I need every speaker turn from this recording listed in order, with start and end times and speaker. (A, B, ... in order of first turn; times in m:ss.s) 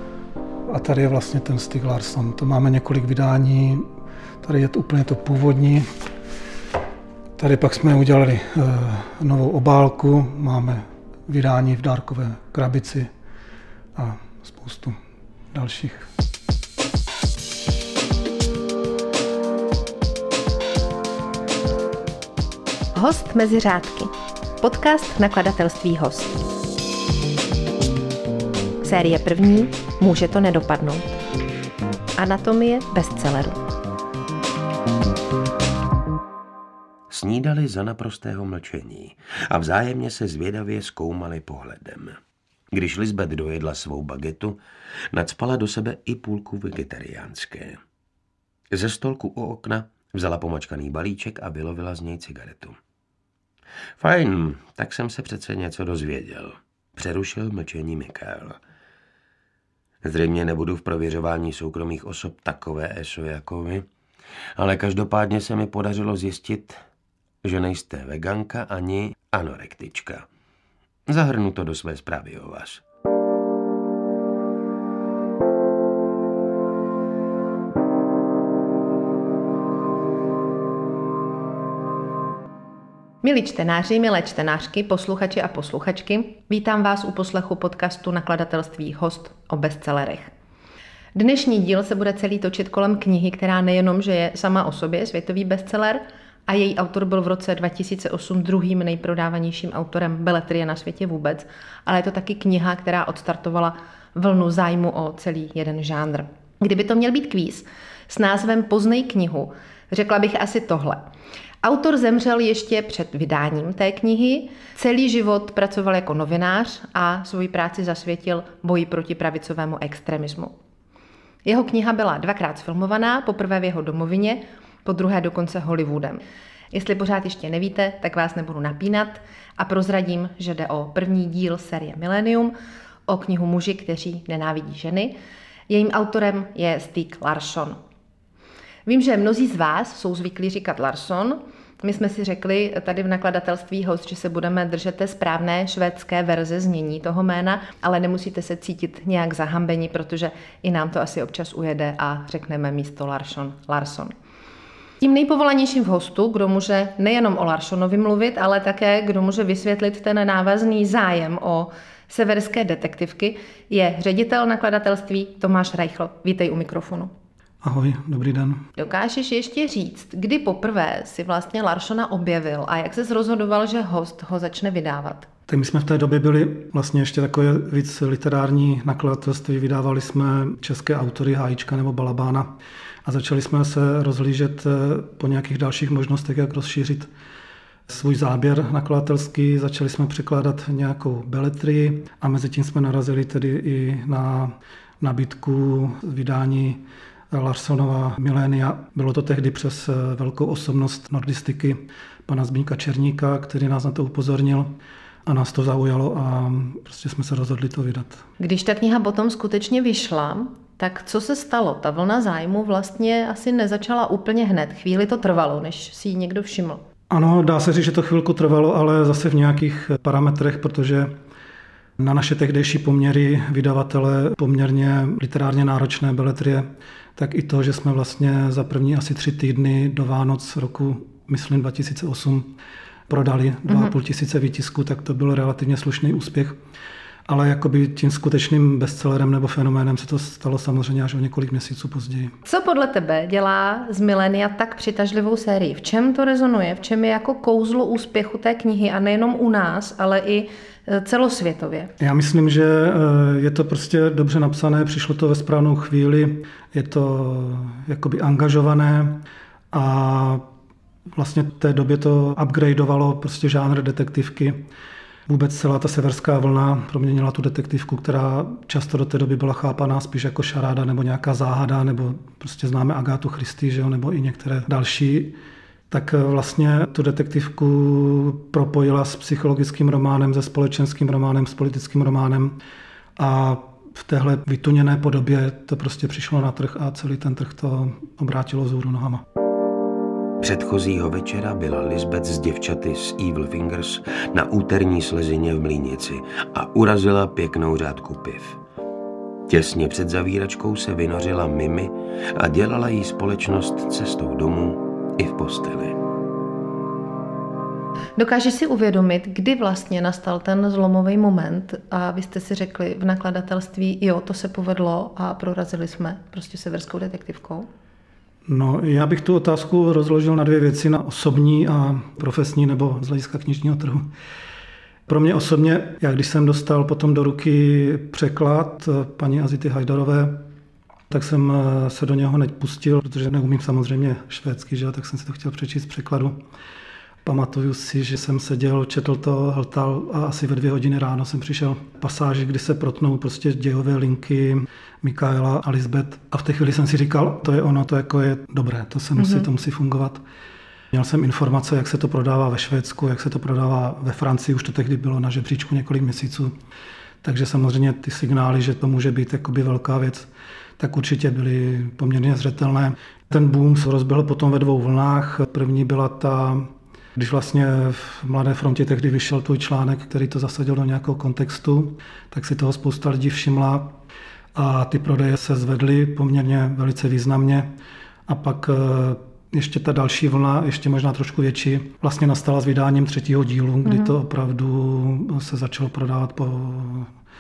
0:00.7-0:03.9 A
0:04.4-0:05.9 A
0:07.4-0:13.1 A
0:14.0-0:15.0 A
0:15.5-0:16.1 A
0:22.9-0:26.4 B
0:28.8-0:31.2 B
0:32.2-0:33.6 B
0:37.1-0:42.2 C
0:42.7-0:44.6 C
0:45.1-0:47.8 C
0:48.7-0:52.8 C
0:54.0-0:58.6 C
1:00.0-1:03.9 C
1:04.6-1:06.8 C
1:07.4-1:10.3 C
1:11.1-1:12.8 C
1:23.2-1:30.3 B
1:31.2-1:51.1 B
1:51.6-2:00.5 B
2:01.4-2:06.2 B
2:06.7-2:12.5 B
2:13.1-2:15.1 B
2:15.7-2:17.8 B
2:18.9-2:34.1 B
2:35.0-2:47.1 B
2:47.6-2:48.6 A
2:48.8-2:55.3 B
2:55.5-3:02.5 A
3:03.0-3:07.1 A
3:07.9-3:24.8 A
3:25.3-3:28.2 A
3:28.4-3:36.8 B
3:37.1-3:41.1 A
3:42.0-3:46.6 A
3:47.2-3:52.5 A
3:53.1-3:56.6 A
3:57.3-4:02.3 A
4:02.4-4:11.9 B
4:12.0-4:20.4 A
4:21.2-4:24.7 A
4:25.3-4:35.4 A
4:35.9-4:42.6 A
4:43.2-4:49.2 A
4:50.4-4:58.6 C
4:59.5-5:06.0 C
5:08.2-5:17.7 B
5:18.5-5:24.1 A
5:25.1-5:30.5 A
5:31.1-5:36.4 A
5:37.2-5:50.2 A
5:49.2-5:49.5 B
5:50.9-5:56.5 A
5:57.2-6:13.9 A
6:14.6-6:17.7 A
6:18.3-6:27.1 A
6:23.8-6:24.1 B